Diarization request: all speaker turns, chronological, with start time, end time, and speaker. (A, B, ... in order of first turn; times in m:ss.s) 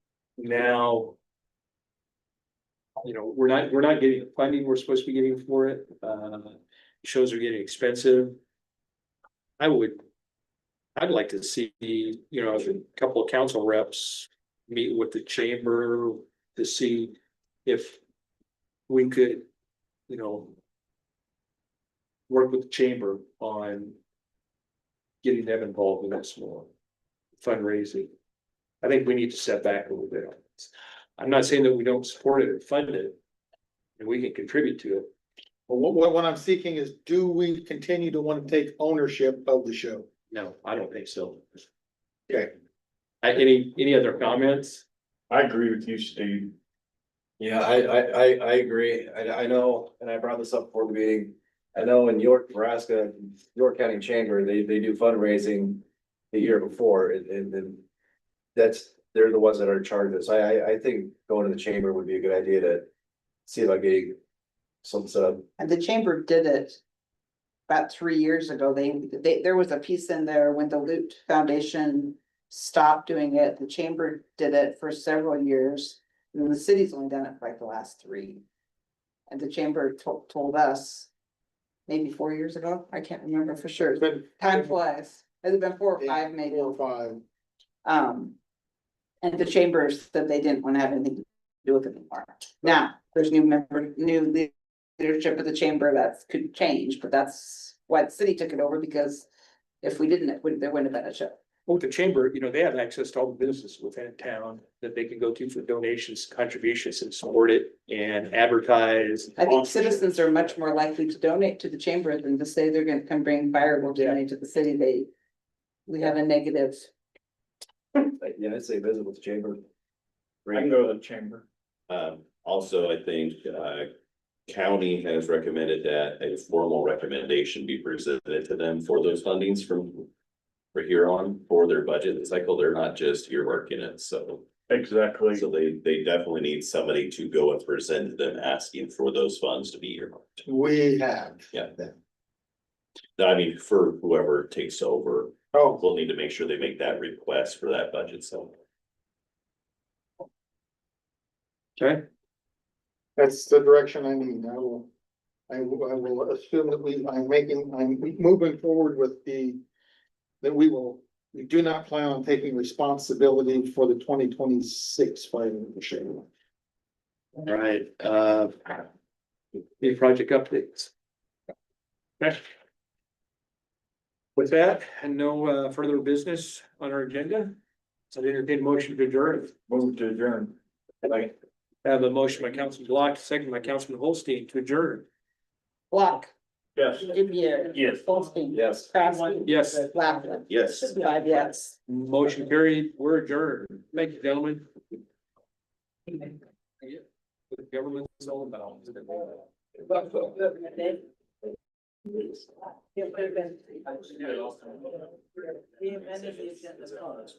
0:00.4-0:01.2 A
0:03.0-0:08.4 A
0:09.6-0:10.0 A
0:11.0-0:18.0 A
0:18.9-0:19.5 A
0:20.1-0:20.6 A
0:22.3-0:24.0 A
0:25.2-0:26.7 A
0:27.4-0:28.1 A
0:28.8-0:33.2 A
0:34.0-0:35.1 A
0:35.7-0:40.1 B
0:40.3-0:41.5 A
0:43.2-0:44.8 A
0:45.3-0:46.5 C
0:47.4-0:57.8 D
0:58.6-1:02.9 D
1:03.5-1:04.2 D
1:04.8-1:05.5 D
1:05.6-1:06.8 E
1:07.7-1:18.4 E
1:19.3-1:21.1 E
1:21.9-1:26.8 E
1:24.0-1:24.6 B
1:26.0-1:27.2 B
1:27.8-1:28.4 E
1:29.2-1:39.3 E
1:39.8-1:41.4 E
1:41.7-1:50.0 A
1:49.4-1:55.1 E
1:55.9-1:56.9 E
1:58.2-1:59.6 D
2:00.4-2:00.8 D
2:00.5-2:01.4 C
2:01.9-2:03.9 F
2:04.5-2:10.1 F
2:10.7-2:14.5 F
2:14.7-2:15.4 C
2:15.4-2:20.2 F
2:20.4-2:21.9 B
2:23.2-2:28.5 F
2:25.5-2:25.8 B
2:31.8-2:32.0 A
2:33.2-2:34.9 B
2:35.5-2:39.6 B
2:40.4-2:46.2 B
2:47.4-2:48.7 A
2:49.8-2:50.9 A
2:54.4-2:57.6 A
2:58.1-2:59.5 A
2:59.7-3:00.6 C
3:01.1-3:01.3 C
3:01.8-3:05.1 A
3:05.9-3:06.3 E
3:06.8-3:07.1 C
3:07.0-3:11.8 E
3:07.7-3:08.0 C
3:08.5-3:08.9 D
3:09.4-3:09.9 A
3:10.5-3:10.9 F
3:11.9-3:14.7 A
3:16.8-3:19.4 A
3:20.1-3:21.0 E
3:22.9-3:24.4 E
3:25.4-3:27.3 E